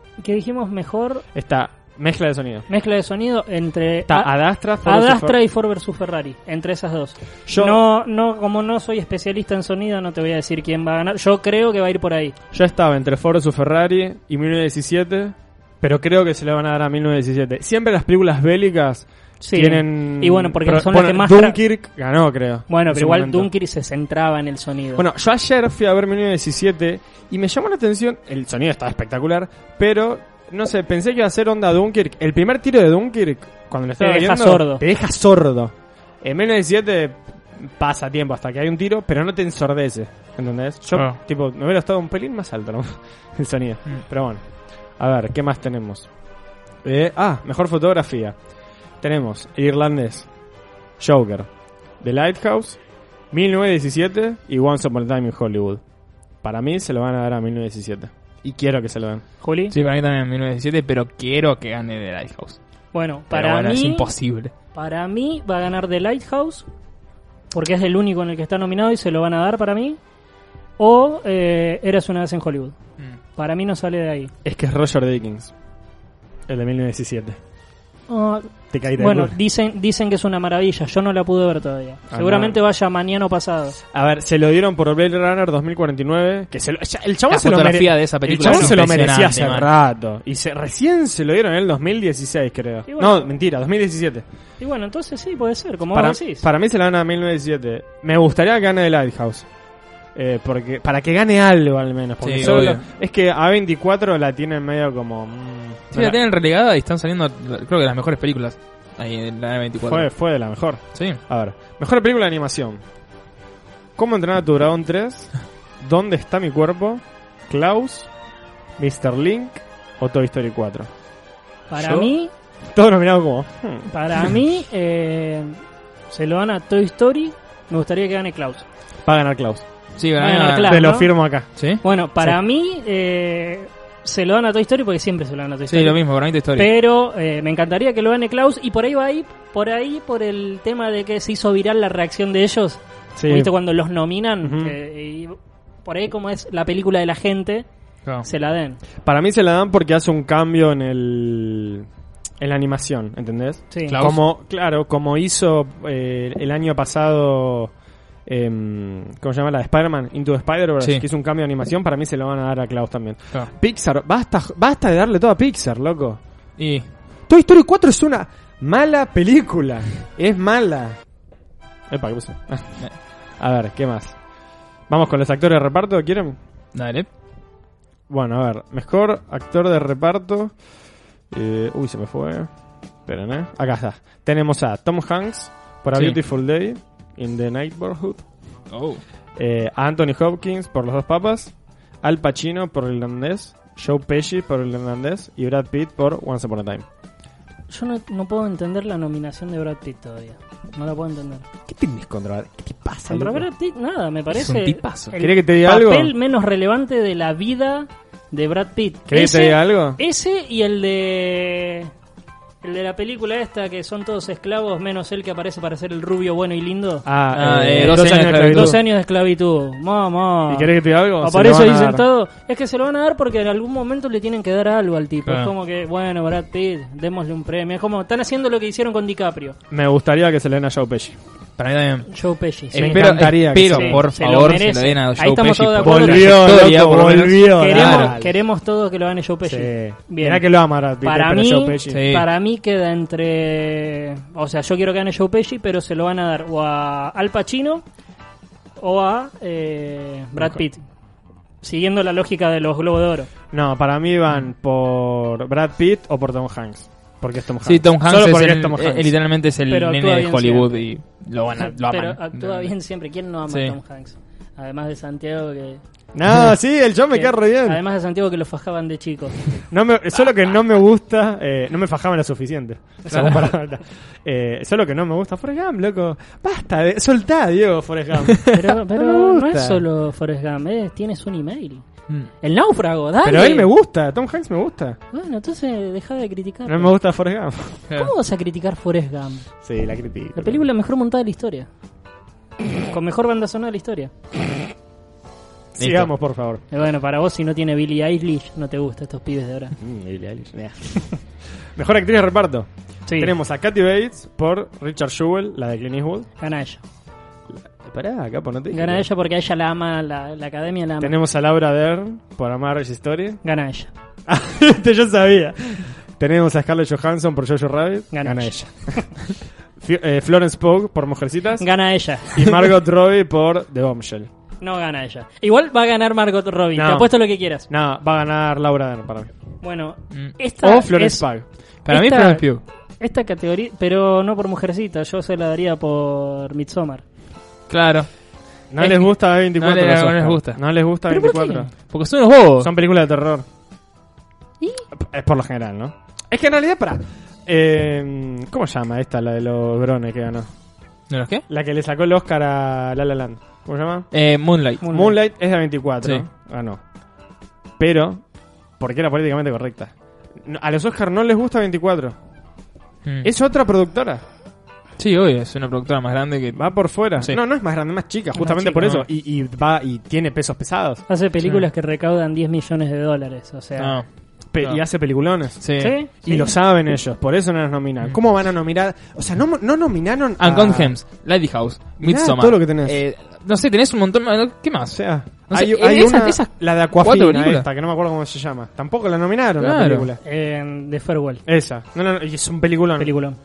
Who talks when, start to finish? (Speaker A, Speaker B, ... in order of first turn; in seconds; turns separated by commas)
Speaker A: 0.2-1.2, Speaker B: 1.3-2.7, Speaker A: 2.7-12.3, Speaker B: 4.1-5.4, Speaker B: 7.5-7.8, Speaker B: 12.5-23.5, Speaker A: 19.4-21.6, Speaker A: 22.7-25.1, Speaker B: 25.0-44.4, Speaker A: 34.0-34.8, Speaker C: 40.9-41.2, Speaker B: 45.0-46.1, Speaker B: 46.8-48.4, Speaker B: 49.0-50.3, Speaker B: 51.0-52.8, Speaker B: 53.3-55.8, Speaker B: 56.4-59.2, Speaker A: 59.4-59.7, Speaker C: 59.7-62.6, Speaker A: 62.9-64.1, Speaker C: 63.3-64.5, Speaker A: 64.7-66.7, Speaker A: 67.5-70.0, Speaker A: 70.8-72.8, Speaker A: 73.3-74.3, Speaker B: 74.5-75.5, Speaker B: 76.5-77.4, Speaker A: 78.1-83.8, Speaker B: 78.7-79.4, Speaker B: 82.1-82.6, Speaker B: 83.9-94.2, Speaker C: 87.3-89.7, Speaker A: 88.4-88.7, Speaker A: 92.9-93.3, Speaker A: 94.6-96.5, Speaker B: 95.9-99.5, Speaker B: 100.2-106.2, Speaker C: 102.2-102.8, Speaker C: 105.9-110.1, Speaker B: 109.8-112.8, Speaker C: 110.9-111.2, Speaker B: 114.0-118.1, Speaker B: 118.8-120.9, Speaker A: 121.7-122.3, Speaker C: 121.8-122.1, Speaker B: 122.7-123.9, Speaker A: 123.9-125.6, Speaker A: 126.1-128.7, Speaker B: 129.1-129.7, Speaker C: 130.0-130.9, Speaker A: 130.2-131.2, Speaker B: 130.6-131.5, Speaker C: 131.6-131.8, Speaker A: 131.8-136.0, Speaker C: 135.7-136.7, Speaker A: 136.6-147.7, Speaker B: 143.2-143.5, Speaker B: 144.4-144.8, Speaker A: 148.2-148.8, Speaker B: 149.0-151.9, Speaker B: 152.4-157.7, Speaker A: 153.7-154.0, Speaker C: 153.9-154.2, Speaker B: 158.3-166.2, Speaker C: 166.6-166.9, Speaker B: 167.3-171.0, Speaker B: 171.9-174.2, Speaker B: 174.9-176.4, Speaker C: 176.7-177.1, Speaker B: 178.1-180.6, Speaker B: 181.3-182.5, Speaker B: 183.1-188.2, Speaker C: 188.7-189.0, Speaker B: 189.4-196.8, Speaker A: 197.7-201.5, Speaker B: 201.7-203.5, Speaker A: 203.1-211.9, Speaker C: 204.3-205.1, Speaker B: 205.2-206.1, Speaker B: 209.1-210.0, Speaker A: 212.6-229.6, Speaker B: 217.1-218.8, Speaker C: 217.4-218.8, Speaker B: 220.5-222.1, Speaker C: 225.3-225.5, Speaker B: 229.7-231.2, Speaker C: 231.6-232.1, Speaker A: 232.1-236.5, Speaker C: 232.7-238.2, Speaker B: 232.8-234.0, Speaker B: 235.8-238.3, Speaker A: 237.6-240.5, Speaker B: 239.5-242.1, Speaker A: 241.0-247.8, Speaker C: 241.9-242.3, Speaker A: 248.8-250.8, Speaker A: 251.6-253.3, Speaker B: 253.5-259.1, Speaker C: 257.6-262.7, Speaker A: 259.7-260.9, Speaker A: 261.6-265.8, Speaker C: 263.5-263.8, Speaker B: 266.1-267.8, Speaker A: 267.1-269.4, Speaker B: 269.7-279.8, Speaker A: 273.1-273.4, Speaker C: 273.1-273.5, Speaker A: 278.5-281.9, Speaker A: 282.4-283.7, Speaker B: 283.2-285.0, Speaker A: 285.1-286.9, Speaker B: 286.7-287.8, Speaker A: 287.9-289.5, Speaker B: 289.6-290.6, Speaker A: 290.4-291.7, Speaker A: 292.9-294.1, Speaker B: 295.8-296.6, Speaker C: 295.8-296.1, Speaker A: 296.7-299.8, Speaker B: 299.8-306.3, Speaker A: 303.1-303.3, Speaker A: 306.4-306.8, Speaker B: 307.5-309.1, Speaker A: 308.7-311.1, Speaker B: 311.0-313.4, Speaker A: 313.4-313.9, Speaker B: 314.3-319.3, Speaker A: 318.1-319.1, Speaker B: 319.8-321.7, Speaker A: 321.6-322.7, Speaker B: 322.3-324.3, Speaker A: 324.6-327.7, Speaker B: 326.8-329.3, Speaker A: 329.6-331.3, Speaker B: 330.6-331.5, Speaker C: 331.9-332.6, Speaker A: 331.9-332.5, Speaker A: 333.0-337.0, Speaker C: 337.7-338.1, Speaker B: 338.7-341.7, Speaker C: 338.8-340.6, Speaker A: 341.1-341.7, Speaker C: 341.8-342.7, Speaker B: 342.6-343.4, Speaker A: 344.6-344.9, Speaker B: 344.9-350.5, Speaker C: 351.1-351.4, Speaker B: 351.5-354.1, Speaker C: 354.1-354.8, Speaker A: 354.8-355.2, Speaker B: 354.9-356.8, Speaker B: 357.8-358.2, Speaker B: 358.8-362.1, Speaker B: 363.2-364.2, Speaker C: 365.0-367.4, Speaker B: 366.5-371.0, Speaker A: 368.4-368.9, Speaker A: 371.1-374.0, Speaker C: 373.8-374.1, Speaker B: 374.5-380.9, Speaker C: 375.6-376.0, Speaker A: 375.8-376.5, Speaker C: 380.4-387.6, Speaker B: 382.0-383.0, Speaker B: 384.9-390.2, Speaker C: 389.6-390.1, Speaker A: 390.2-391.4, Speaker B: 391.5-393.2, Speaker A: 393.0-393.4